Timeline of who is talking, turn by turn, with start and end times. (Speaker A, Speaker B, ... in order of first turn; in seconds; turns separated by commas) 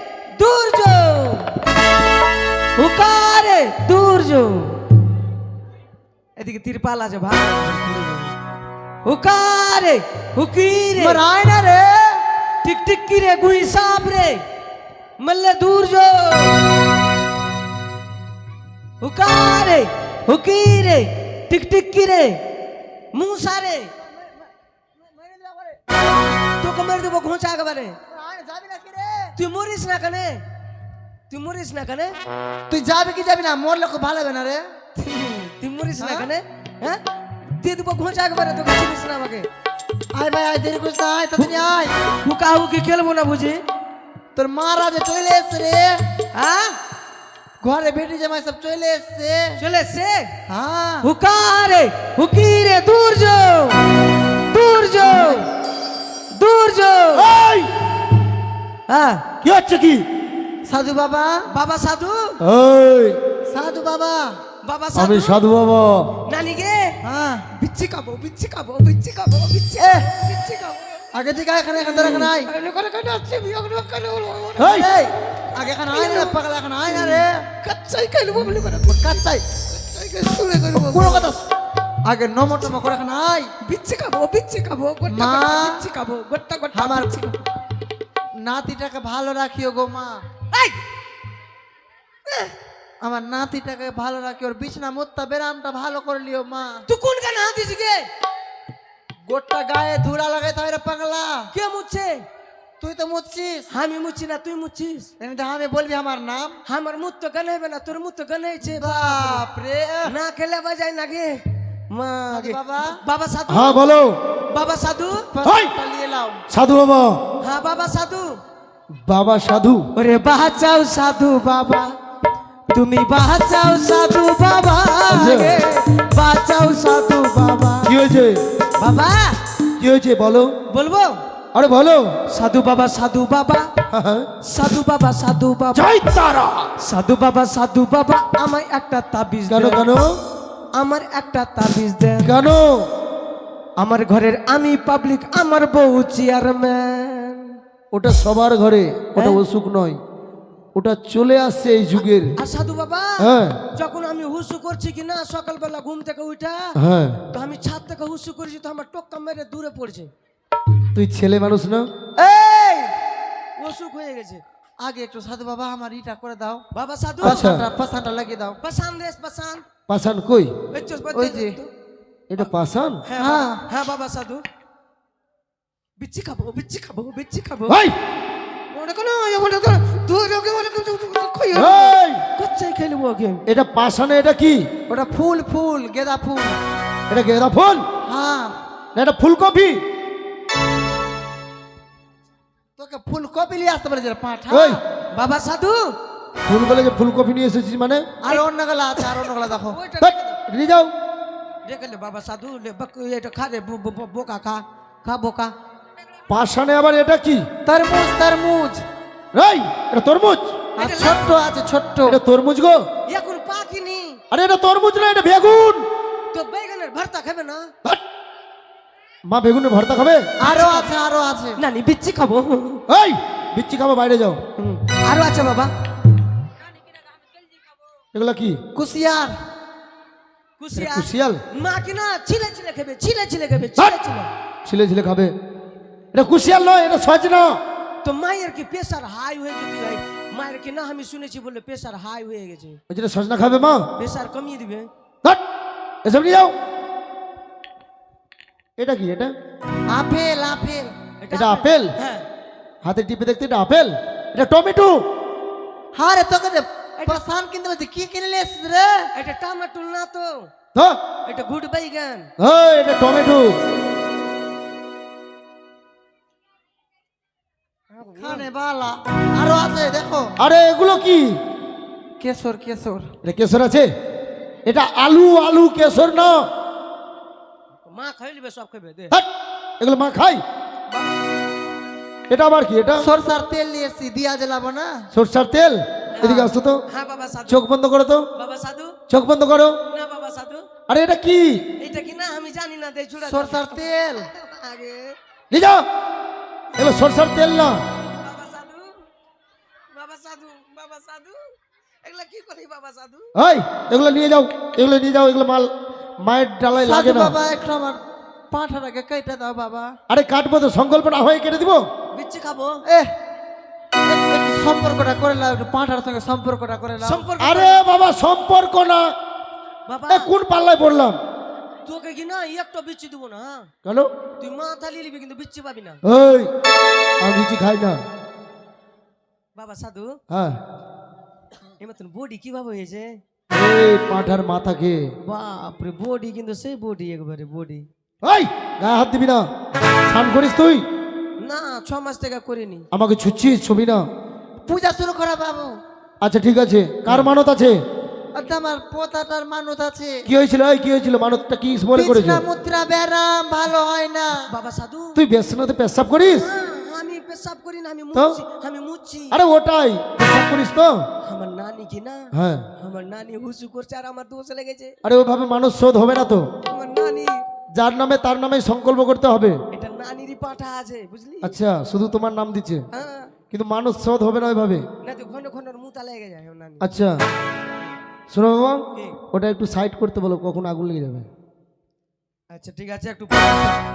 Speaker A: 0.3-1.5, Speaker A: 2.8-4.8, Speaker A: 6.4-8.3, Speaker A: 9.0-11.2, Speaker B: 10.9-12.2, Speaker A: 12.6-14.4, Speaker A: 15.2-16.7, Speaker A: 19.0-22.4, Speaker A: 23.1-23.9, Speaker B: 24.0-24.4, Speaker B: 25.0-25.8, Speaker A: 26.6-28.0, Speaker B: 28.1-29.3, Speaker A: 29.4-30.4, Speaker A: 31.3-32.1, Speaker B: 32.7-34.6, Speaker A: 35.0-37.0, Speaker B: 36.0-36.3, Speaker A: 37.5-39.5, Speaker B: 40.1-41.9, Speaker A: 41.4-43.6, Speaker B: 44.4-46.0, Speaker A: 46.3-46.8, Speaker B: 47.6-49.6, Speaker A: 49.6-50.3, Speaker B: 50.5-51.1, Speaker A: 51.0-53.8, Speaker A: 54.5-55.5, Speaker A: 56.3-57.3, Speaker C: 57.1-57.7, Speaker A: 58.9-59.2, Speaker C: 59.4-60.0, Speaker B: 60.6-61.4, Speaker A: 61.5-62.4, Speaker C: 62.4-63.2, Speaker B: 63.5-64.4, Speaker A: 64.6-65.4, Speaker C: 64.9-66.2, Speaker A: 66.2-67.0, Speaker B: 67.0-67.5, Speaker A: 67.5-70.8, Speaker B: 69.8-70.0, Speaker B: 71.1-72.5, Speaker A: 71.8-75.0, Speaker C: 74.6-74.9, Speaker B: 74.6-77.4, Speaker A: 75.5-81.3, Speaker B: 78.9-79.4, Speaker B: 80.9-81.5, Speaker B: 82.0-83.5, Speaker A: 83.6-87.3, Speaker B: 85.1-85.8, Speaker B: 86.7-87.2, Speaker B: 88.3-90.2, Speaker A: 90.5-90.8, Speaker A: 92.3-92.5, Speaker B: 93.0-96.8, Speaker A: 96.9-98.1, Speaker B: 99.2-101.5, Speaker A: 101.5-102.2, Speaker B: 102.8-103.7, Speaker A: 103.7-105.1, Speaker B: 105.2-106.6, Speaker A: 106.7-109.4, Speaker B: 108.6-110.1, Speaker A: 110.0-113.8, Speaker B: 112.3-113.0, Speaker C: 113.5-114.2, Speaker A: 114.5-115.2, Speaker B: 115.2-116.4, Speaker C: 115.4-115.7, Speaker C: 116.5-117.2, Speaker A: 117.4-118.4, Speaker C: 118.9-119.9, Speaker A: 119.9-121.9, Speaker A: 122.7-127.9, Speaker C: 125.1-125.6, Speaker C: 127.8-128.4, Speaker A: 128.8-129.3, Speaker C: 129.8-130.5, Speaker A: 130.7-131.2, Speaker C: 131.5-132.1, Speaker A: 132.3-133.7, Speaker C: 133.9-134.3, Speaker A: 134.4-135.8, Speaker C: 135.7-136.7, Speaker A: 136.8-139.9, Speaker C: 139.5-140.1, Speaker A: 140.8-142.3, Speaker C: 142.2-142.9, Speaker A: 143.8-147.6, Speaker C: 147.9-150.0, Speaker A: 149.2-149.4, Speaker C: 150.8-152.3, Speaker A: 152.4-156.8, Speaker C: 153.2-153.6, Speaker C: 156.8-157.2, Speaker A: 157.3-160.1, Speaker C: 160.9-161.9, Speaker A: 162.2-162.9, Speaker A: 163.6-164.4, Speaker B: 164.8-166.6, Speaker A: 166.7-167.4, Speaker B: 167.2-168.6, Speaker C: 167.2-167.6, Speaker A: 168.6-169.6, Speaker C: 169.9-170.5, Speaker A: 170.7-171.7, Speaker B: 171.1-171.6, Speaker C: 172.3-173.0, Speaker A: 173.0-174.4, Speaker B: 173.2-173.6, Speaker A: 176.0-177.8, Speaker C: 177.7-177.9, Speaker A: 178.7-183.4, Speaker C: 181.5-182.2, Speaker C: 183.5-184.7, Speaker B: 184.9-186.6, Speaker C: 187.1-187.8, Speaker B: 188.0-188.6, Speaker C: 188.9-189.8, Speaker B: 192.8-194.8, Speaker C: 194.5-194.8, Speaker A: 195.1-195.9, Speaker C: 196.4-198.1, Speaker B: 198.2-199.8, Speaker A: 198.9-200.4, Speaker C: 200.0-200.9, Speaker A: 201.7-204.6, Speaker B: 205.0-205.5, Speaker C: 206.3-207.5, Speaker B: 207.6-208.8, Speaker C: 209.3-210.6, Speaker B: 210.8-212.2, Speaker A: 210.8-211.2, Speaker C: 212.1-212.8, Speaker A: 213.1-214.2, Speaker C: 214.3-215.8, Speaker A: 216.3-217.7, Speaker C: 219.2-220.3, Speaker B: 220.4-221.6, Speaker A: 220.5-220.9, Speaker A: 221.6-222.8, Speaker C: 222.9-224.4, Speaker A: 224.6-225.7, Speaker C: 228.1-228.6, Speaker B: 228.7-229.3, Speaker A: 230.6-234.3, Speaker C: 230.8-231.4, Speaker C: 234.6-235.3, Speaker C: 236.1-237.6, Speaker A: 238.0-242.8, Speaker C: 242.9-243.8, Speaker A: 243.9-244.9, Speaker C: 246.0-246.5, Speaker C: 248.8-249.3, Speaker B: 249.9-250.9, Speaker A: 251.2-252.2, Speaker C: 251.3-251.9, Speaker C: 252.8-255.0, Speaker B: 255.9-259.1, Speaker A: 257.0-257.2, Speaker A: 259.1-260.5, Speaker A: 261.2-262.3, Speaker C: 262.4-263.6, Speaker A: 267.9-268.4, Speaker B: 268.1-270.3, Speaker C: 270.4-271.4, Speaker B: 272.2-273.1, Speaker C: 273.2-273.9, Speaker C: 274.6-276.4, Speaker A: 277.9-279.1, Speaker C: 279.8-280.4, Speaker A: 280.9-281.2, Speaker C: 282.3-283.1, Speaker B: 283.0-285.0, Speaker C: 285.1-286.8, Speaker A: 286.1-287.6, Speaker C: 287.5-288.3, Speaker A: 288.3-288.9, Speaker C: 289.1-289.8, Speaker A: 289.9-290.6, Speaker C: 290.9-291.6, Speaker A: 291.8-295.1, Speaker B: 293.2-294.3, Speaker C: 295.5-295.8, Speaker C: 296.8-297.8, Speaker A: 298.2-299.1, Speaker A: 299.9-303.3, Speaker C: 303.3-307.4, Speaker B: 306.8-308.0, Speaker B: 308.5-309.9, Speaker C: 310.1-311.8, Speaker A: 312.1-312.8, Speaker B: 314.0-317.3, Speaker A: 317.0-317.7, Speaker C: 317.4-319.1, Speaker A: 319.9-320.3, Speaker C: 320.1-321.2, Speaker A: 321.8-323.7, Speaker C: 323.8-324.1, Speaker A: 324.4-326.0, Speaker C: 326.0-326.5, Speaker C: 327.2-328.0, Speaker A: 329.6-330.2, Speaker C: 330.3-330.6, Speaker A: 331.8-333.2, Speaker C: 333.5-335.0, Speaker A: 335.2-337.9, Speaker C: 338.2-339.5, Speaker C: 340.1-340.8, Speaker A: 341.4-342.9, Speaker C: 342.9-344.0, Speaker B: 344.6-345.8, Speaker C: 346.2-347.8, Speaker B: 348.3-350.2, Speaker C: 350.3-352.4, Speaker B: 351.9-354.4, Speaker A: 354.5-355.2, Speaker C: 355.1-356.5, Speaker A: 356.3-359.4, Speaker C: 358.1-358.4, Speaker C: 359.3-361.0, Speaker A: 361.2-364.9, Speaker C: 362.3-362.6, Speaker C: 365.0-366.4, Speaker A: 366.7-367.4, Speaker C: 367.7-369.6, Speaker A: 369.7-371.6, Speaker C: 371.4-372.8, Speaker A: 372.9-373.3, Speaker C: 373.5-374.8, Speaker A: 375.0-376.8, Speaker C: 376.8-377.1, Speaker C: 378.3-381.3, Speaker A: 382.5-383.8